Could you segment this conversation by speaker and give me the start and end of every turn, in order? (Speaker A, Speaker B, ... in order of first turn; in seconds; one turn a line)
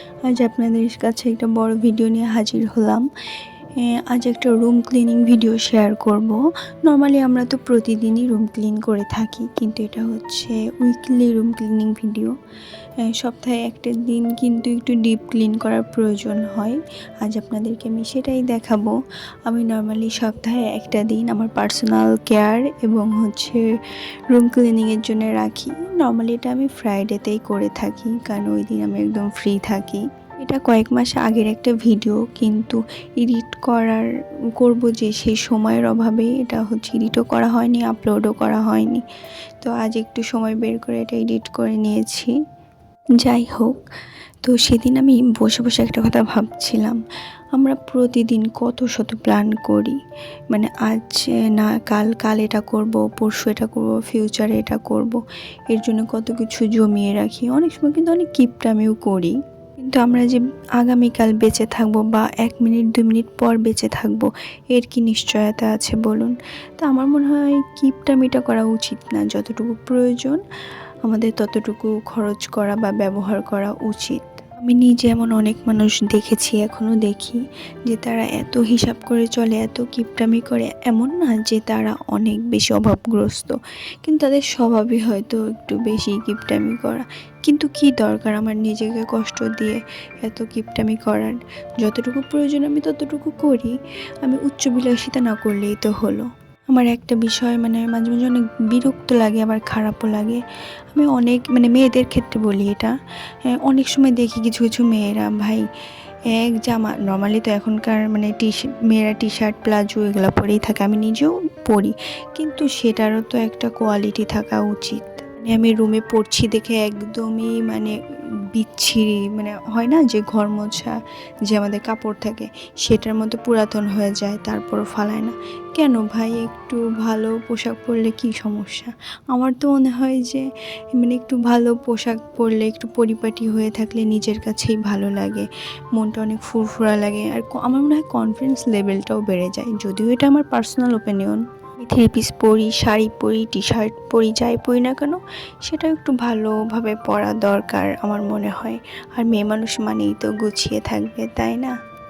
Speaker A: 0.3-3.0
Speaker A: 4.1-12.3
Speaker A: 13.1-18.9
Speaker A: 19.5-23.6
Speaker A: 24.3-34.0
Speaker A: 34.6-39.0
Speaker A: 39.6-42.3
Speaker A: 43.2-43.8
Speaker A: 44.4-47.0
Speaker A: 47.5-50.0
Speaker A: 50.5-70.4
Speaker A: 71.0-102.9
Speaker A: 103.5-105.6
Speaker A: 106.3-117.9
Speaker A: 118.5-121.0
Speaker A: 121.5-130.4
Speaker A: 130.9-151.7